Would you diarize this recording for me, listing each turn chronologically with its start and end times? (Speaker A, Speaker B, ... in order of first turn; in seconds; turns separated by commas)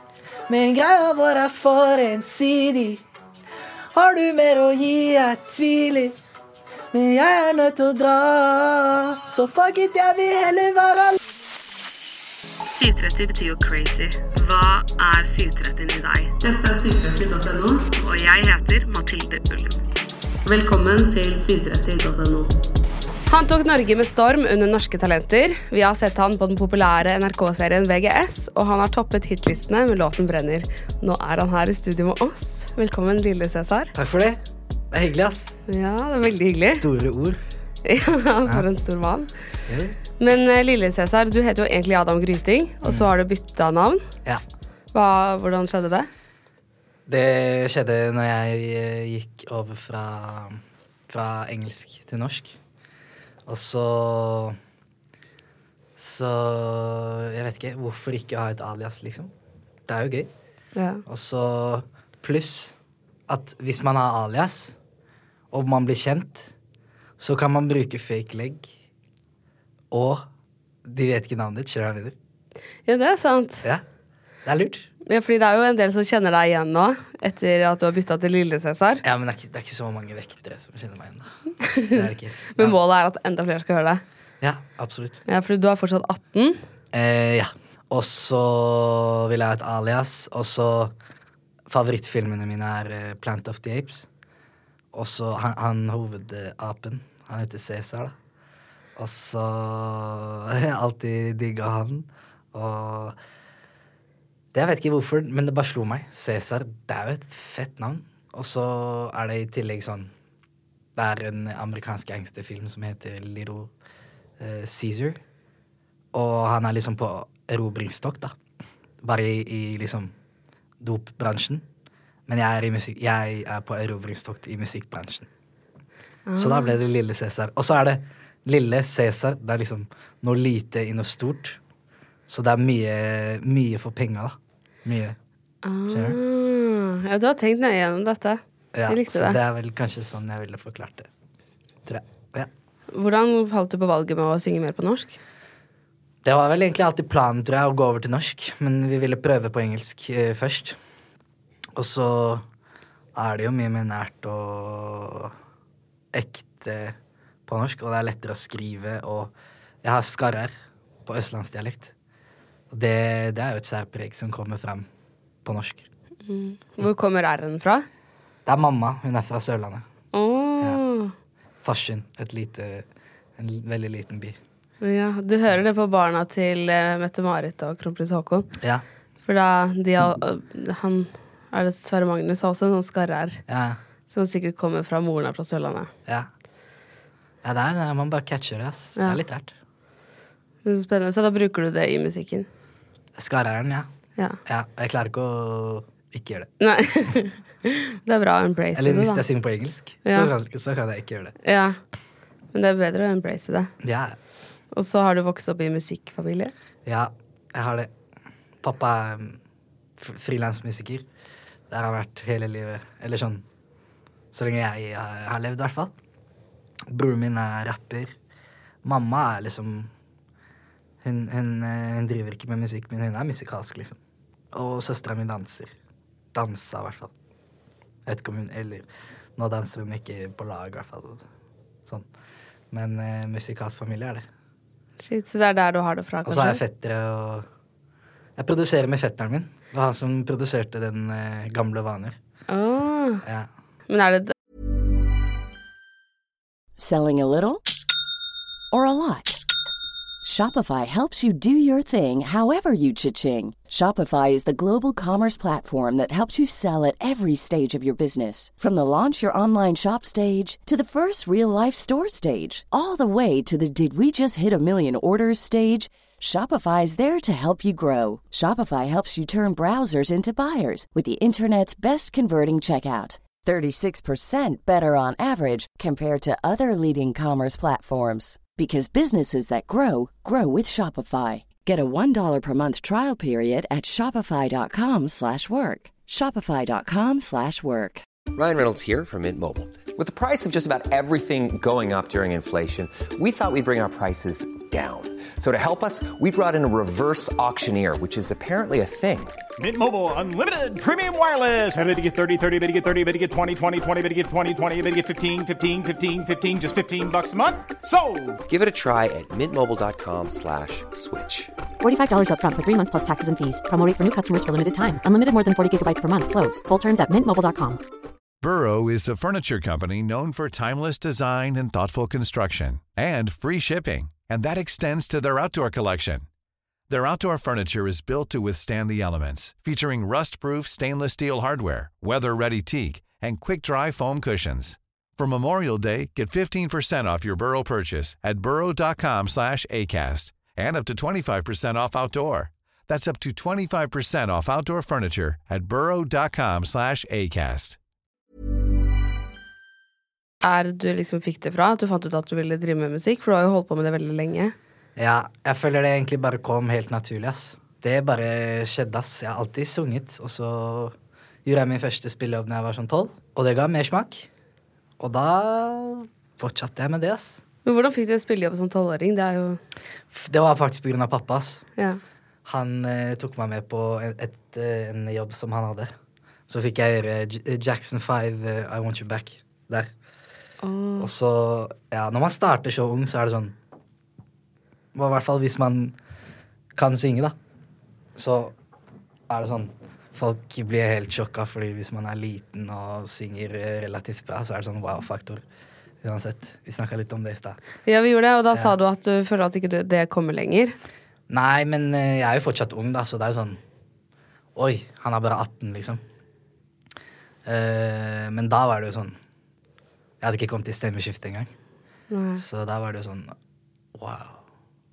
Speaker A: 0.5-3.0, Speaker A: 3.9-6.2, Speaker A: 6.9-11.2, Speaker B: 12.7-19.8, Speaker B: 20.4-22.5, Speaker B: 23.3-33.9, Speaker A: 33.9-34.4, Speaker A: 34.9-35.5, Speaker B: 35.7-36.9, Speaker A: 36.7-37.4, Speaker B: 37.8-39.3, Speaker A: 39.7-40.0, Speaker B: 40.2-44.0, Speaker A: 42.8-43.1, Speaker B: 44.9-46.1, Speaker A: 47.1-52.6, Speaker A: 53.5-54.6, Speaker A: 56.0-59.3, Speaker A: 59.9-60.3, Speaker B: 60.8-61.0, Speaker A: 61.0-62.8, Speaker A: 63.3-64.8, Speaker A: 65.5-66.5, Speaker A: 67.2-68.8, Speaker A: 69.9-70.3, Speaker A: 70.8-72.1, Speaker B: 72.8-73.7, Speaker A: 74.4-74.9, Speaker B: 75.0-79.0, Speaker A: 79.0-81.3, Speaker B: 81.6-84.0, Speaker A: 81.9-82.8, Speaker A: 84.4-85.2, Speaker B: 85.2-86.6, Speaker A: 86.9-90.9, Speaker A: 91.7-94.1, Speaker A: 94.9-98.1, Speaker A: 99.0-103.2, Speaker A: 104.5-110.1, Speaker A: 111.0-113.7, Speaker A: 114.4-115.2, Speaker A: 116.1-118.3, Speaker A: 119.0-120.1, Speaker A: 120.8-121.6, Speaker A: 122.3-125.3, Speaker B: 126.3-126.8, Speaker A: 126.4-131.6, Speaker A: 132.3-135.2, Speaker B: 135.6-139.4, Speaker A: 135.9-136.2, Speaker A: 138.7-141.1, Speaker A: 141.8-142.5, Speaker B: 142.9-145.2, Speaker A: 146.2-150.8, Speaker A: 151.8-152.4, Speaker A: 153.1-155.3, Speaker A: 156.1-156.9, Speaker A: 157.5-160.5, Speaker A: 161.1-161.9, Speaker A: 162.7-164.9, Speaker A: 165.4-165.9, Speaker B: 166.3-167.8, Speaker A: 168.4-169.8, Speaker B: 170.1-171.1, Speaker A: 171.6-174.4, Speaker B: 174.8-178.5, Speaker B: 179.2-183.4, Speaker A: 183.5-183.8, Speaker B: 184.1-185.9, Speaker A: 187.4-189.5, Speaker B: 190.6-192.5, Speaker A: 193.2-193.9, Speaker A: 194.4-196.5, Speaker B: 196.6-199.2, Speaker A: 198.7-201.3, Speaker B: 201.4-201.8, Speaker B: 202.5-203.7, Speaker A: 203.8-204.2, Speaker B: 204.7-206.5, Speaker A: 206.8-207.9, Speaker A: 208.6-209.4, Speaker A: 210.0-211.0, Speaker A: 211.7-213.4, Speaker A: 214.3-215.9, Speaker A: 216.9-218.1, Speaker A: 218.8-219.9, Speaker A: 221.0-224.0, Speaker A: 224.5-225.7, Speaker A: 226.3-227.1, Speaker A: 228.1-228.8, Speaker A: 229.4-231.2, Speaker A: 232.7-234.2, Speaker B: 235.0-236.6, Speaker A: 236.2-237.5, Speaker A: 238.3-242.2, Speaker B: 242.5-243.2, Speaker B: 243.9-244.3, Speaker C: 246.8-247.6, Speaker C: 248.7-249.4, Speaker C: 250.2-288.0, Speaker D: 288.3-299.4, Speaker E: 299.6-308.4, Speaker D: 308.4-311.5, Speaker F: 311.8-317.8, Speaker G: 318.4-326.2, Speaker G: 326.9-347.8, Speaker B: 350.4-354.5, Speaker A: 354.9-364.3, Speaker A: 365.0-367.4, Speaker B: 367.6-369.6, Speaker A: 370.1-371.6, Speaker A: 372.4-375.9, Speaker A: 376.5-379.9, Speaker B: 380.6-381.1, Speaker A: 381.0-383.5, Speaker A: 384.9-385.9, Speaker A: 386.7-387.3, Speaker A: 388.1-388.5, Speaker A: 389.3-395.4, Speaker A: 396.0-397.6, Speaker B: 397.8-400.7, Speaker A: 401.3-403.6, Speaker A: 404.5-406.0, Speaker A: 407.4-409.2, Speaker A: 410.2-411.5, Speaker B: 412.1-412.4, Speaker A: 412.4-413.3, Speaker A: 413.9-414.4